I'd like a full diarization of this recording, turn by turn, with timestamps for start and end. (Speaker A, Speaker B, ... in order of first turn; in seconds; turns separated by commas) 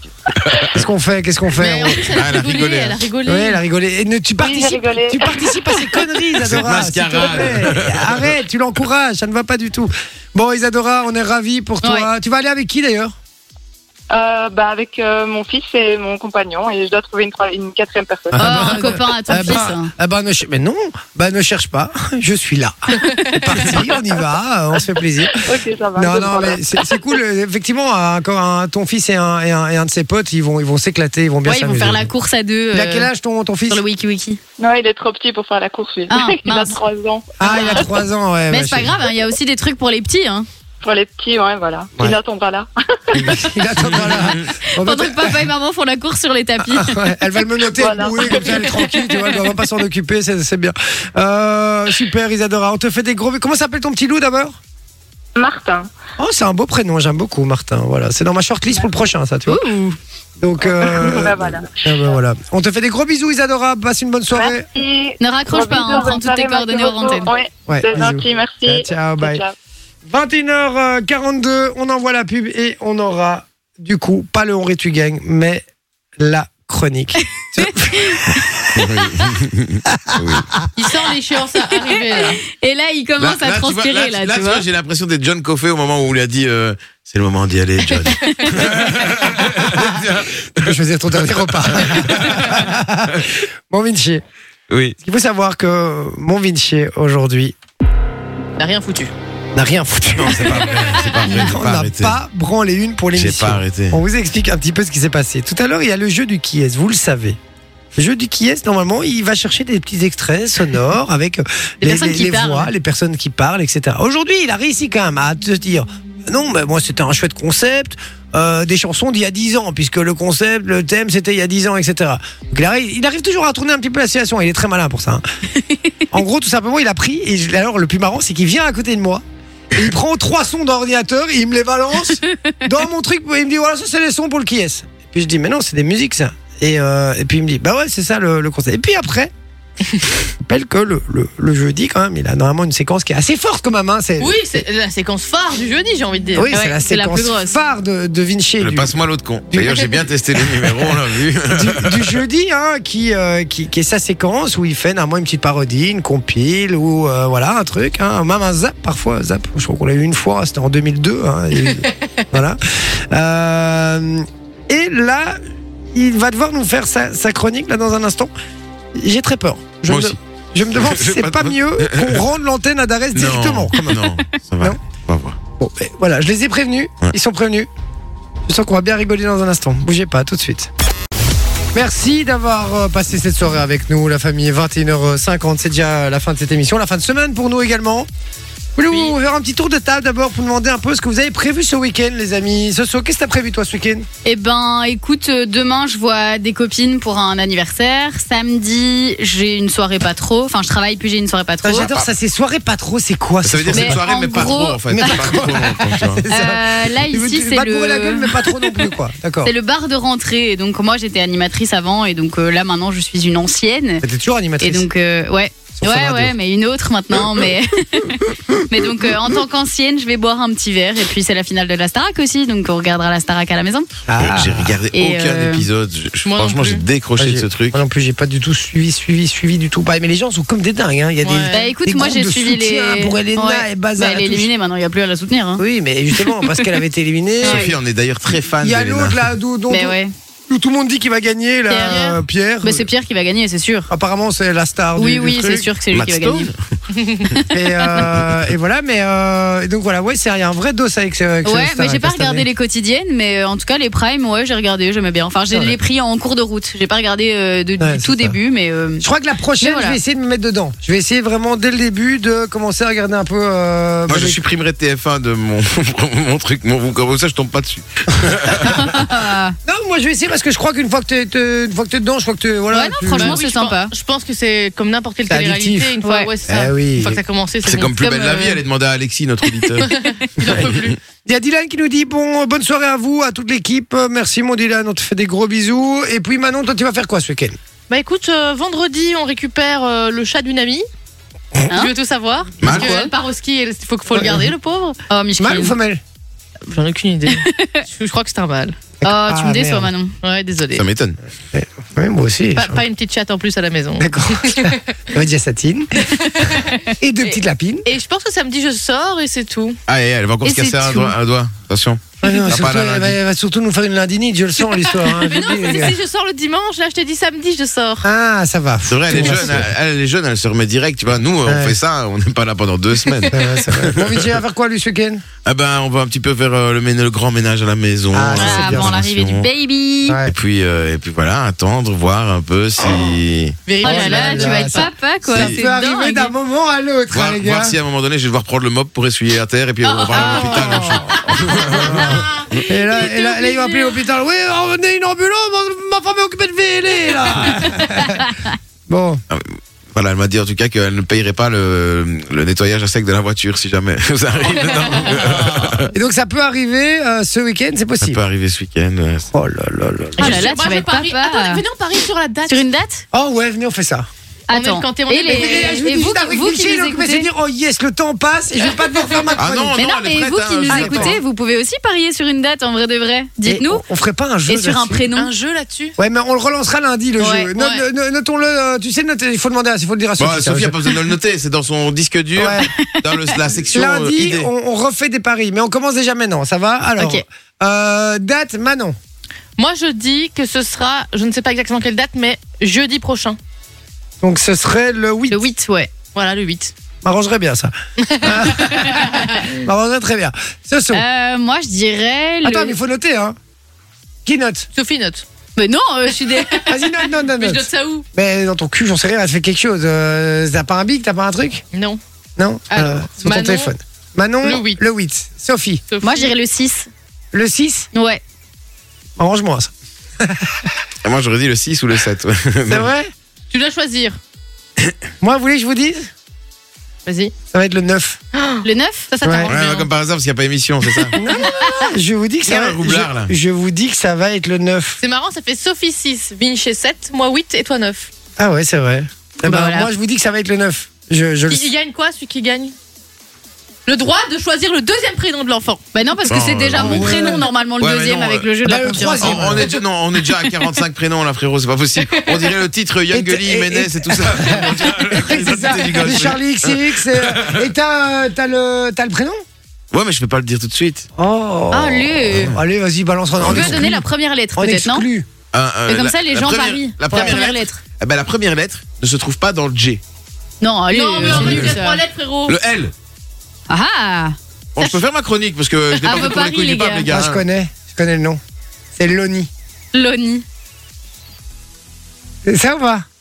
Speaker A: 0.3-0.8, Speaker B: 0.7-2.1, Speaker C: 1.6-3.6, Speaker A: 2.1-3.0, Speaker B: 3.2-13.2, Speaker D: 4.4-6.3, Speaker A: 6.4-8.3, Speaker E: 11.8-12.1, Speaker D: 14.1-18.5, Speaker B: 18.3-32.1, Speaker E: 18.4-19.9, Speaker D: 25.3-27.0, Speaker E: 31.4-33.1, Speaker B: 32.7-33.8, Speaker E: 33.7-34.4, Speaker D: 34.6-37.3, Speaker E: 36.1-36.8, Speaker B: 37.4-39.0, Speaker E: 37.4-37.9, Speaker E: 38.5-40.5, Speaker D: 40.8-43.7, Speaker B: 43.1-45.5, Speaker A: 43.8-44.5, Speaker E: 44.8-47.1, Speaker B: 46.6-54.6, Speaker D: 47.8-48.9, Speaker E: 48.2-48.9, Speaker D: 55.4-55.9, Speaker B: 56.2-59.6, Speaker E: 59.5-60.0, Speaker B: 60.4-64.7, Speaker D: 60.6-61.8, Speaker D: 64.3-69.5, Speaker E: 65.2-67.3, Speaker B: 67.7-69.4, Speaker B: 70.1-75.6, Speaker B: 76.2-78.2, Speaker E: 77.6-78.3, Speaker A: 78.8-80.5, Speaker E: 79.0-79.3, Speaker B: 79.9-80.4, Speaker C: 80.8-82.4, Speaker E: 82.2-84.7, Speaker A: 83.2-90.6, Speaker E: 87.9-88.7, Speaker B: 89.1-94.2, Speaker A: 91.6-92.7, Speaker A: 94.7-95.0, Speaker B: 95.0-97.5, Speaker C: 98.6-99.1, Speaker B: 99.5-107.4, Speaker A: 100.2-102.2, Speaker A: 103.2-104.0, Speaker B: 108.0-125.2, Speaker E: 111.8-112.7, Speaker B: 126.1-129.2, Speaker B: 129.7-139.3, Speaker B: 140.4-144.4, Speaker C: 144.2-146.5, Speaker B: 146.3-148.9, Speaker E: 146.5-147.6, Speaker A: 148.6-152.2, Speaker B: 149.5-151.0, Speaker B: 151.5-165.4, Speaker B: 165.9-168.3, Speaker B: 168.9-174.1, Speaker A: 169.9-170.2, Speaker A: 170.7-172.2, Speaker A: 173.2-175.4, Speaker B: 175.6-177.7, Speaker B: 178.5-180.7, Speaker B: 181.7-188.1, Speaker B: 188.8-194.1, Speaker E: 194.2-201.9, Speaker B: 201.6-204.0, Speaker A: 201.8-202.1, Speaker A: 203.4-206.2, Speaker E: 203.7-205.1, Speaker B: 204.9-209.5, Speaker E: 206.3-208.9, Speaker E: 209.4-214.1, Speaker B: 214.0-214.9, Speaker E: 214.6-223.9, Speaker B: 215.8-216.3, Speaker B: 224.1-224.8, Speaker A: 224.2-227.8, Speaker E: 224.9-225.7, Speaker C: 226.2-226.8, Speaker B: 227.2-234.5, Speaker C: 231.2-231.7, Speaker E: 231.5-236.7, Speaker B: 235.6-237.7, Speaker E: 237.4-237.7, Speaker A: 237.4-239.2, Speaker B: 238.6-240.0, Speaker E: 239.7-240.1, Speaker B: 240.5-242.9, Speaker E: 241.7-243.9, Speaker B: 243.9-245.7, Speaker E: 245.0-246.5, Speaker A: 245.9-246.6, Speaker C: 247.0-247.2, Speaker E: 247.3-248.1, Speaker B: 247.5-252.5, Speaker E: 251.4-259.1, Speaker B: 255.5-255.8, Speaker B: 257.8-258.4, Speaker B: 259.0-264.4, Speaker E: 259.6-260.0, Speaker A: 264.1-269.0, Speaker E: 268.6-269.6, Speaker B: 269.6-273.4, Speaker E: 272.7-273.9, Speaker C: 273.1-278.6, Speaker B: 275.3-276.0, Speaker E: 276.0-276.3, Speaker B: 276.5-277.2, Speaker A: 277.6-280.0, Speaker E: 279.6-280.0, Speaker C: 279.8-281.0, Speaker A: 280.5-280.9, Speaker B: 281.3-287.6, Speaker C: 287.9-290.9, Speaker C: 291.7-295.0, Speaker A: 292.6-292.9, Speaker E: 292.7-293.1, Speaker B: 294.1-294.5, Speaker E: 295.1-295.8, Speaker B: 295.4-296.0, Speaker C: 296.7-298.8, Speaker E: 297.3-297.8, Speaker B: 299.0-299.9, Speaker E: 299.1-300.1, Speaker C: 300.2-300.9, Speaker A: 300.7-301.2, Speaker B: 301.5-302.8, Speaker C: 302.6-304.8, Speaker B: 304.0-306.0, Speaker C: 306.0-309.8, Speaker B: 307.0-307.9, Speaker A: 309.9-313.2, Speaker E: 310.4-310.7, Speaker C: 310.5-311.1, Speaker B: 312.2-316.0, Speaker C: 315.0-318.1, Speaker B: 318.0-319.7, Speaker A: 318.9-324.3, Speaker C: 319.1-319.6, Speaker B: 321.5-321.8, Speaker B: 323.3-325.2, Speaker A: 325.4-329.5, Speaker B: 328.1-329.0, Speaker E: 328.4-330.2, Speaker B: 330.1-330.3, Speaker A: 330.3-333.6, Speaker C: 333.7-334.9, Speaker E: 333.8-336.3, Speaker B: 333.8-337.8, Speaker A: 335.3-335.6, Speaker A: 337.1-342.2, Speaker C: 339.8-341.8, Speaker E: 341.3-341.8, Speaker B: 341.8-348.2, Speaker E: 342.5-343.9, Speaker B: 348.9-349.2, Speaker A: 349.3-355.9, Speaker C: 354.5-355.9, Speaker B: 355.9-358.2, Speaker A: 358.0-359.3, Speaker B: 359.3-360.5, Speaker C: 360.2-362.7, Speaker E: 360.2-361.6, Speaker E: 362.5-363.0, Speaker B: 363.1-364.1, Speaker E: 364.5-367.3, Speaker C: 364.5-366.0, Speaker B: 365.2-369.8, Speaker A: 369.4-371.2, Speaker E: 369.8-373.8, Speaker B: 370.7-371.2, Speaker B: 373.4-375.1, Speaker E: 374.5-375.3, Speaker C: 375.1-376.0, Speaker B: 376.0-380.9, Speaker E: 377.2-377.5, Speaker A: 380.2-384.5, Speaker B: 382.4-382.7, Speaker E: 382.6-383.3, Speaker B: 383.7-389.0, Speaker E: 387.0-387.2, Speaker C: 389.6-393.4, Speaker B: 394.2-395.5, Speaker E: 395.3-395.9, Speaker C: 396.1-396.7, Speaker B: 397.0-401.0, Speaker C: 398.0-399.5, Speaker E: 400.9-402.8, Speaker B: 402.4-403.4, Speaker B: 404.2-404.7, Speaker C: 404.8-405.3, Speaker E: 405.6-406.7, Speaker C: 406.2-408.1, Speaker B: 406.7-411.6, Speaker C: 411.7-412.0, Speaker B: 412.4-415.8, Speaker C: 412.7-413.7, Speaker C: 414.4-414.8, Speaker C: 415.9-416.3, Speaker E: 416.0-416.9, Speaker B: 417.3-417.9, Speaker E: 417.9-418.2, Speaker B: 419.2-420.7, Speaker A: 421.0-422.9, Speaker B: 422.7-423.1, Speaker C: 423.5-424.2, Speaker B: 425.2-426.1, Speaker C: 427.1-427.3, Speaker B: 427.5-428.2, Speaker C: 428.3-429.9, Speaker E: 428.6-429.1, Speaker B: 429.2-429.5, Speaker A: 429.5-431.2, Speaker B: 431.2-435.0, Speaker E: 431.4-431.8, Speaker A: 432.5-433.3, Speaker C: 435.0-438.1, Speaker B: 438.4-441.7, Speaker E: 439.4-439.9, Speaker C: 441.5-442.8, Speaker C: 443.9-445.8, Speaker E: 445.9-449.5, Speaker A: 446.3-448.5, Speaker B: 446.8-447.4, Speaker B: 448.6-449.8, Speaker A: 449.2-457.7, Speaker C: 452.1-452.6, Speaker B: 453.1-459.4, Speaker A: 459.9-461.1, Speaker B: 461.2-464.1, Speaker E: 461.7-462.6, Speaker A: 462.3-462.6, Speaker E: 463.4-465.1, Speaker A: 463.4-463.9, Speaker B: 464.6-465.3, Speaker A: 465.5-470.0, Speaker E: 465.9-467.8, Speaker B: 467.1-467.4, Speaker E: 470.6-472.0, Speaker C: 470.9-472.6, Speaker A: 471.2-471.8, Speaker A: 472.5-472.9, Speaker E: 473.7-475.0, Speaker A: 474.8-477.4, Speaker E: 476.0-477.1, Speaker B: 477.1-478.4, Speaker B: 478.9-479.5, Speaker E: 479.9-480.4, Speaker B: 482.4-483.1